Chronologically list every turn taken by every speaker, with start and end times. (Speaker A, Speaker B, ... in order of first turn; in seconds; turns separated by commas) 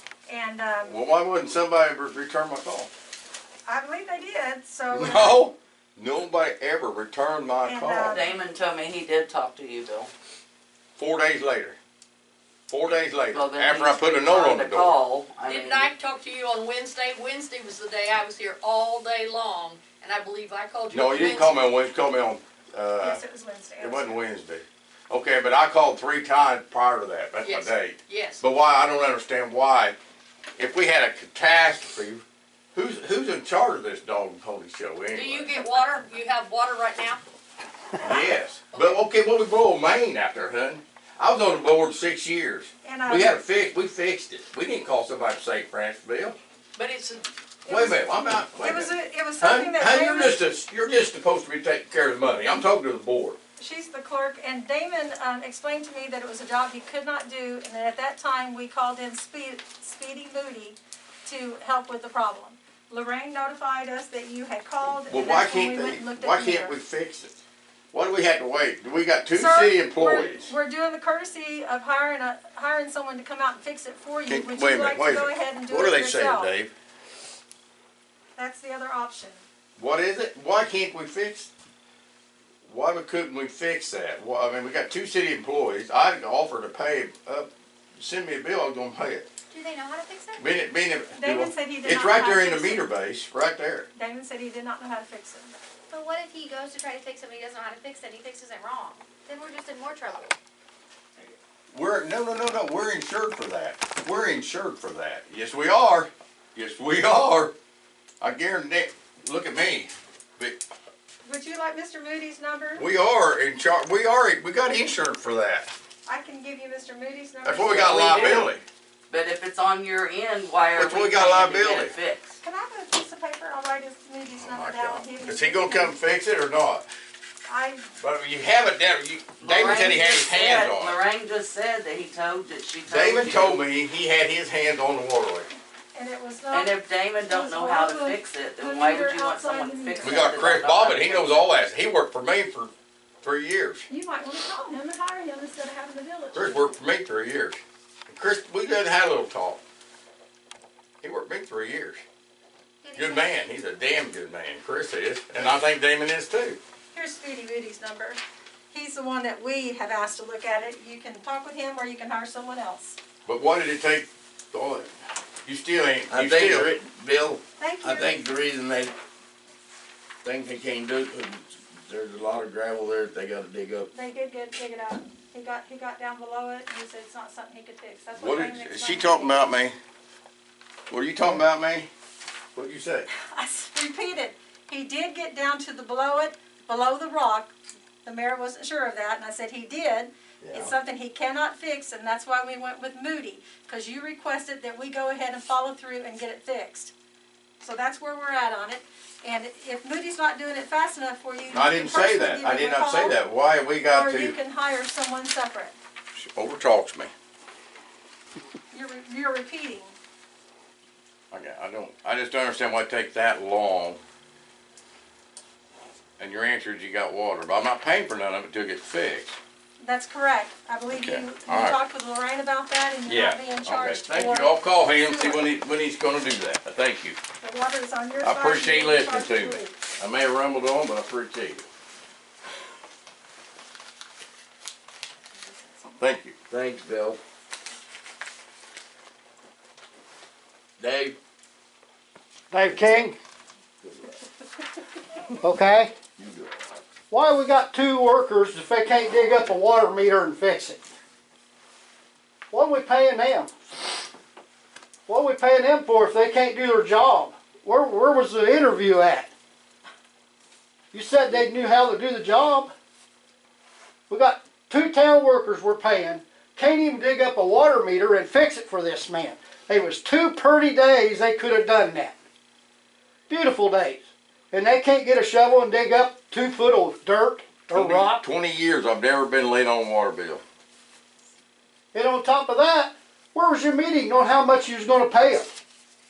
Speaker A: 0.3-1.0, Speaker B: 0.9-2.9, Speaker A: 3.7-5.4, Speaker B: 4.9-8.2, Speaker A: 7.7-8.3, Speaker C: 8.0-10.1, Speaker B: 11.0-11.8, Speaker B: 12.7-15.0, Speaker C: 13.3-15.9, Speaker D: 15.4-21.8, Speaker B: 20.9-23.2, Speaker A: 23.0-24.2, Speaker B: 23.8-30.0, Speaker D: 27.4-28.4, Speaker B: 30.6-35.6, Speaker D: 35.1-37.2, Speaker B: 38.0-46.4, Speaker D: 38.1-39.0, Speaker A: 42.8-43.4, Speaker D: 46.8-47.3, Speaker A: 47.7-50.4, Speaker B: 47.7-53.4, Speaker A: 53.6-66.8, Speaker B: 65.1-67.4, Speaker B: 67.9-70.5, Speaker A: 69.3-76.5, Speaker B: 74.3-76.7, Speaker A: 78.4-79.4, Speaker B: 79.8-81.5, Speaker B: 82.6-89.3, Speaker E: 89.5-90.5, Speaker B: 90.4-93.9, Speaker A: 91.2-92.8, Speaker A: 94.0-95.6, Speaker E: 95.9-100.3, Speaker B: 101.7-107.5, Speaker B: 108.2-110.6, Speaker A: 111.2-112.9, Speaker B: 112.8-115.7, Speaker A: 116.1-118.5, Speaker B: 117.4-118.6, Speaker C: 117.7-118.6, Speaker C: 119.1-122.3, Speaker B: 120.7-121.9, Speaker A: 122.4-126.0, Speaker B: 124.3-126.9, Speaker A: 127.5-127.9, Speaker B: 128.0-131.0, Speaker C: 129.4-133.6, Speaker B: 132.9-135.5, Speaker A: 135.9-140.4, Speaker C: 136.5-141.4, Speaker B: 140.0-143.9, Speaker A: 143.9-146.8, Speaker B: 146.3-149.6, Speaker B: 151.0-152.0, Speaker E: 152.8-153.4, Speaker B: 152.9-156.6, Speaker A: 156.9-158.2, Speaker A: 158.7-163.0, Speaker B: 163.3-164.9, Speaker B: 165.4-166.7, Speaker F: 166.1-168.9, Speaker A: 167.6-168.2, Speaker F: 170.2-173.9, Speaker A: 173.9-179.5, Speaker B: 178.2-179.8, Speaker B: 180.9-181.9, Speaker B: 182.6-183.1, Speaker A: 183.2-196.9, Speaker B: 190.4-190.7, Speaker A: 197.6-203.2, Speaker B: 201.5-204.4, Speaker A: 203.9-205.8, Speaker B: 206.2-207.1, Speaker A: 208.7-209.9, Speaker B: 211.3-214.0, Speaker B: 216.2-219.4, Speaker A: 219.8-225.5, Speaker B: 220.9-221.8, Speaker B: 223.1-227.2, Speaker A: 227.4-229.8, Speaker B: 228.2-231.7, Speaker B: 236.0-236.4, Speaker F: 236.5-237.2, Speaker F: 240.8-241.2, Speaker G: 242.5-243.2, Speaker F: 243.8-244.2, Speaker G: 245.4-245.9, Speaker F: 246.2-246.6, Speaker G: 247.1-250.8, Speaker G: 252.5-253.7, Speaker G: 255.1-259.3, Speaker G: 260.9-262.7, Speaker G: 264.1-272.2, Speaker G: 273.3-278.2, Speaker B: 277.7-280.4, Speaker G: 281.9-285.5